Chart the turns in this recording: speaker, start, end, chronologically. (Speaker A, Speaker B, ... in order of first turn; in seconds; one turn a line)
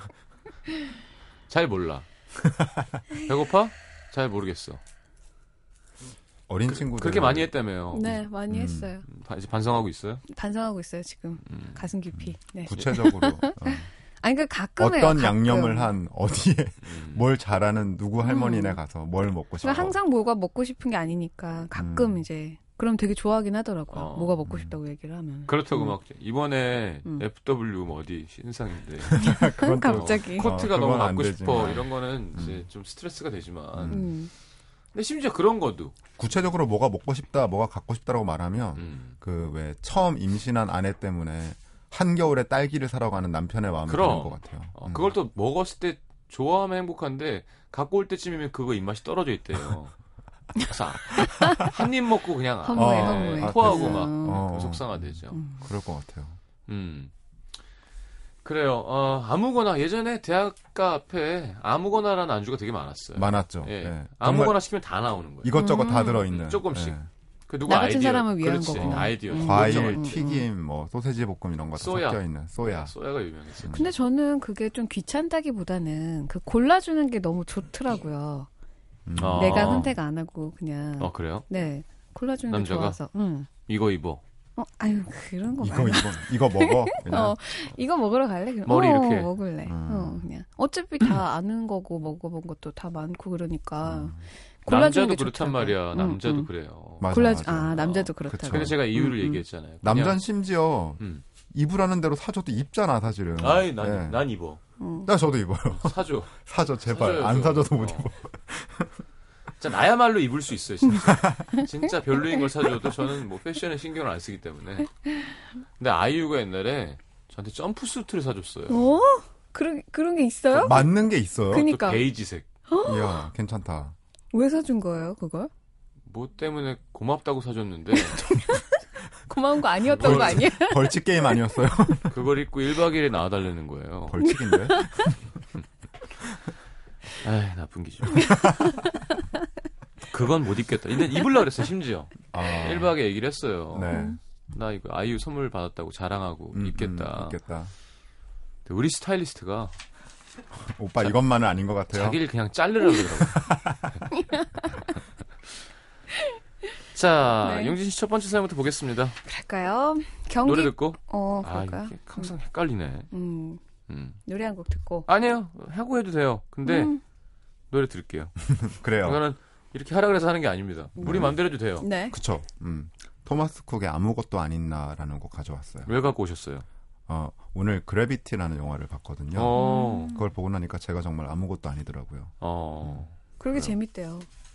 Speaker A: 1.5-2.1
Speaker B: 2.5-2.8
Speaker A: 3.2-4.8
Speaker B: 6.5-7.5
Speaker A: 6.7-8.2
Speaker C: 7.9-9.0
Speaker B: 8.5-8.9
Speaker A: 9.1-10.2
Speaker C: 10.3-15.9
Speaker A: 11.5-11.8
Speaker B: 12.2-13.9
Speaker B: 14.8-20.0
Speaker A: 16.8-17.2
Speaker C: 18.2-18.8
Speaker C: 19.6-25.9
Speaker B: 21.8-22.2
Speaker A: 23.9-24.4
Speaker B: 24.4-24.8
Speaker A: 25.5-29.2
Speaker B: 29.0-32.6
Speaker C: 29.2-30.5
Speaker A: 29.8-34.1
Speaker B: 33.8-34.0
Speaker C: 33.9-34.3
Speaker A: 34.9-36.0
Speaker B: 36.2-45.1
Speaker A: 38.8-39.1
Speaker A: 43.9-49.9
Speaker A: 50.5-55.4
Speaker C: 51.2-51.7
Speaker C: 52.6-54.4
Speaker B: 52.7-56.4
Speaker C: 55.3-55.6
Speaker A: 56.7-57.1
Speaker A: 58.4-67.0
Speaker B: 63.1-64.5
Speaker B: 65.4-67.1
Speaker C: 65.5-66.2
Speaker A: 67.5-70.2
Speaker C: 67.7-70.5
Speaker B: 68.7-72.9
Speaker A: 71.8-73.9
Speaker B: 73.6-73.9
Speaker C: 73.7-78.5
Speaker B: 79.1-80.0
Speaker A: 79.2-79.9
Speaker C: 79.3-83.5
Speaker A: 81.0-81.5
Speaker A: 82.5-83.0
Speaker A: 83.7-84.2
Speaker C: 84.6-96.5
Speaker B: 85.6-87.4
Speaker A: 88.6-89.3
Speaker B: 89.7-90.2
Speaker B: 93.8-94.2
Speaker A: 94.7-100.2
Speaker B: 97.0-104.2
Speaker C: 97.1-98.8
Speaker A: 103.4-104.6
Speaker C: 104.8-105.1
Speaker B: 105.0-108.9
Speaker A: 105.7-108.1
Speaker A: 109.6-114.9
Speaker C: 115.0-115.3
Speaker A: 115.8-118.8
Speaker C: 118.7-120.9
Speaker B: 120.5-121.7
Speaker C: 121.5-122.0
Speaker A: 121.5-122.5
Speaker C: 122.7-123.3
Speaker B: 122.8-123.9
Speaker C: 124.3-125.5
Speaker A: 126.1-128.2
Speaker C: 128.1-128.6
Speaker B: 128.3-128.6
Speaker C: 129.2-131.0
Speaker B: 129.9-132.2
Speaker A: 129.9-130.5
Speaker A: 132.1-134.2
Speaker B: 134.1-135.2
Speaker C: 134.2-135.1
Speaker A: 137.1-138.4
Speaker B: 138.3-138.7
Speaker C: 138.3-139.2
Speaker A: 140.1-144.0
Speaker B: 142.3-142.9
Speaker B: 143.7-144.2
Speaker C: 143.9-144.2
Speaker A: 144.5-147.4
Speaker B: 146.5-147.7
Speaker A: 148.7-149.7
Speaker B: 150.6-152.2
Speaker A: 151.9-153.4
Speaker B: 153.2-154.0
Speaker C: 154.1-154.8
Speaker A: 156.9-159.2
Speaker C: 157.4-157.8
Speaker C: 159.2-162.3
Speaker A: 160.4-163.1
Speaker C: 163.1-163.6
Speaker A: 163.9-164.2
Speaker C: 164.2-165.1
Speaker A: 165.1-166.9
Speaker C: 166.6-167.0
Speaker A: 167.7-171.9
Speaker B: 168.5-169.2
Speaker C: 171.0-172.2
Speaker B: 171.0-171.4
Speaker B: 172.1-175.9
Speaker A: 175.9-176.7
Speaker B: 177.1-179.6
Speaker A: 179.3-180.1
Speaker C: 179.5-180.3
Speaker B: 180.1-182.3
Speaker A: 182.4-183.7
Speaker C: 183.4-184.3